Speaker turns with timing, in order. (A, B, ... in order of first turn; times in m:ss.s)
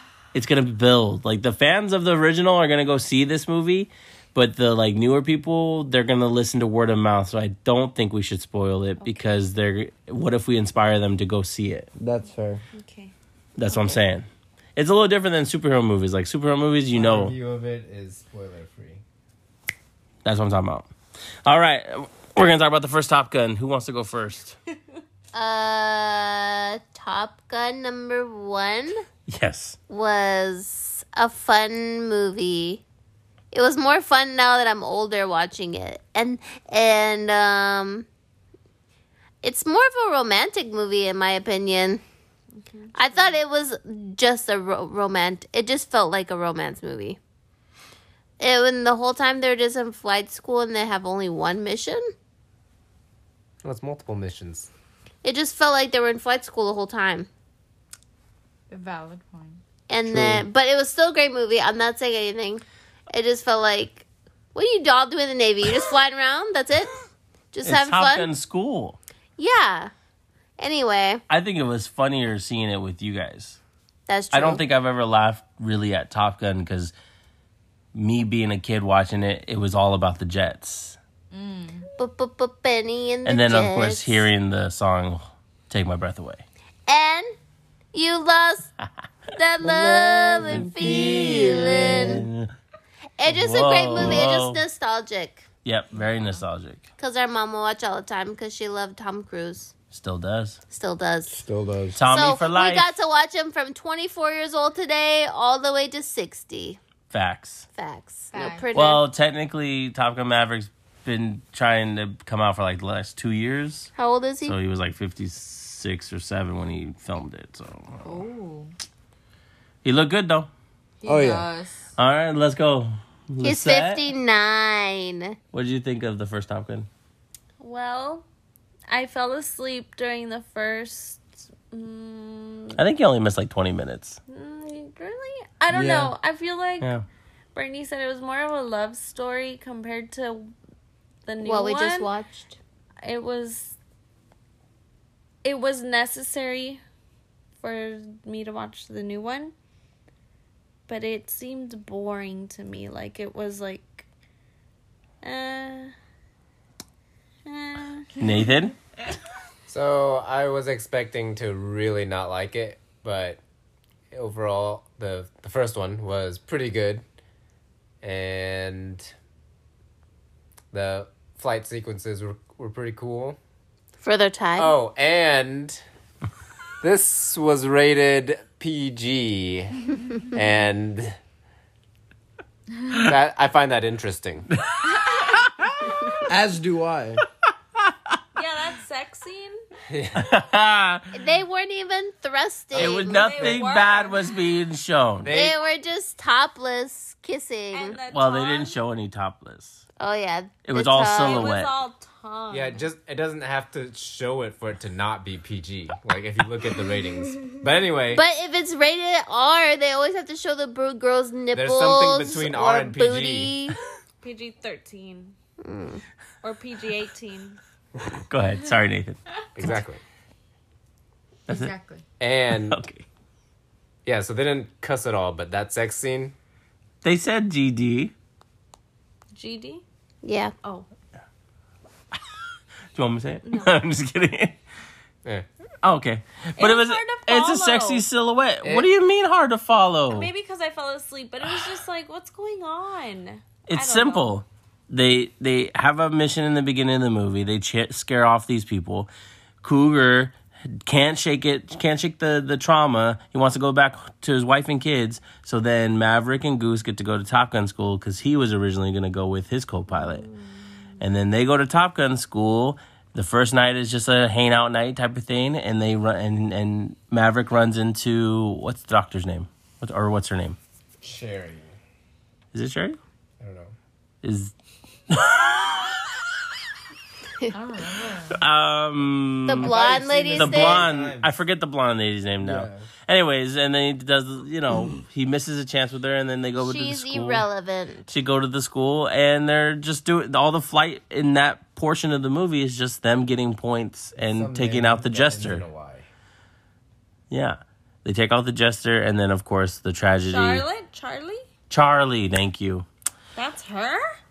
0:00.3-0:11.9 A
0:09.0-0:09.3 B
0:12.0-0:12.6 C
0:12.7-0:13.1 B
0:13.6-0:17.3 A
0:13.7-0:14.0 B
0:16.9-0:19.0 D
0:20.2-0:20.9 A
0:21.4-0:24.6 A
0:25.3-0:29.0 E
0:29.3-0:29.8 A
0:29.9-0:32.8 E
0:33.5-0:38.0 E
0:39.4-0:42.0 E
0:42.7-0:43.3 B
0:42.9-0:47.2 E
0:48.4-0:52.1 E
0:53.6-0:54.7 D
0:55.2-0:57.3 E
0:58.7-0:59.6 F
0:59.9-1:07.0 E
1:00.1-1:00.4 C
1:07.5-1:08.3 E
1:07.6-1:09.0 A
1:09.4-1:09.9 E
1:10.6-1:11.2 E
1:11.3-1:13.6 A
1:14.1-1:14.6 E
1:14.3-1:16.9 A
1:17.9-1:21.0 A
1:21.3-1:21.9 F
1:22.0-1:24.2 E
1:23.2-1:26.4 A
1:26.9-1:27.3 E
1:27.9-1:28.7 E
1:29.3-1:32.3 E
1:29.6-1:32.2 C
1:30.5-1:32.5 A
1:33.2-1:35.5 E
1:33.2-1:34.6 A
1:35.6-1:36.8 A
1:35.9-1:36.4 F
1:37.0-1:39.7 E
1:39.9-1:40.6 A
1:40.7-1:41.4 E
1:41.3-1:42.0 C
1:41.9-1:42.9 A
1:42.1-1:46.8 E
1:47.1-1:47.7 A
1:47.7-1:49.0 E
1:48.3-1:48.7 F
1:48.7-1:53.9 A
1:54.0-1:54.5 E
1:54.4-1:58.2 A
1:58.0-1:58.7 F
1:59.8-2:00.5 A
2:01.0-2:01.9 F
2:01.0-2:01.5 C
2:02.0-2:04.0 A
2:03.4-2:05.4 E
2:05.5-2:06.9 A
2:07.6-2:08.2 B
2:08.9-2:12.8 B
2:12.7-2:14.2 A
2:14.3-2:16.9 B
2:15.7-2:16.1 C
2:17.5-2:20.5 B
2:21.2-2:22.1 B
2:21.4-2:22.6 E
2:23.0-2:23.7 B
2:25.4-2:26.8 B
2:27.6-2:29.5 B
2:30.9-2:34.0 B
2:35.2-2:35.9 B
2:37.4-2:38.1 B
2:38.2-2:38.8 A
2:39.7-2:43.4 D
2:44.1-2:47.0 D
2:48.0-2:49.1 D
2:50.7-2:53.4 D
2:54.0-2:54.7 E
2:54.6-2:55.8 D
2:56.8-3:01.2 D
3:02.9-3:04.5 D
3:05.2-3:06.0 A
3:06.2-3:07.2 C
3:08.3-3:09.6 B
3:09.9-3:10.2 D
3:10.1-3:11.2 A
3:11.1-3:13.6 E
3:12.7-3:15.4 A
3:12.8-3:14.4 B
3:15.2-3:15.6 D
3:15.3-3:18.0 E
3:17.7-3:18.8 B
3:18.1-3:19.8 A
3:20.0-3:21.6 E
3:20.6-3:21.7 A
3:21.1-3:22.9 B
3:22.5-3:28.2 D
3:28.1-3:33.8 E
3:31.5-3:33.5 D
3:34.2-3:35.3 B
3:35.6-3:36.0 E
3:36.4-3:37.6 B
3:38.3-3:39.8 A
3:39.6-3:40.0 D
3:41.5-3:41.7 A
3:41.5-3:42.0 F
3:42.2-3:42.8 D
3:42.5-3:43.0 A
3:44.0-3:46.3 D
3:47.0-3:48.1 A
3:49.3-3:49.8 B
3:50.2-3:50.5 E
3:52.9-3:54.6 A
3:53.4-3:53.7 B
3:55.8-4:00.3 A
3:56.6-3:58.0 B
3:58.6-3:58.9 D
4:00.1-4:04.4 B
4:01.4-4:01.7 A
4:03.7-4:09.1 A
4:09.6-4:20.3 A
4:19.9-4:20.5 B
4:21.0-4:30.6 A
4:31.0-4:31.7 D
4:32.5-4:33.0 A
4:33.4-4:33.7 D
4:34.2-4:34.5 A
4:35.1-4:36.2 A
4:37.5-4:38.4 F
4:38.3-4:39.7 A
4:39.5-4:40.9 E
4:39.6-4:41.3 D
4:40.3-4:47.4 A
4:42.4-4:42.9 C
4:46.6-4:48.1 E
4:48.1-4:55.6 A
4:54.2-4:56.0 D
4:57.3-5:00.6 A
5:00.3-5:01.4 B
5:01.7-5:02.8 A
5:03.4-5:04.1 B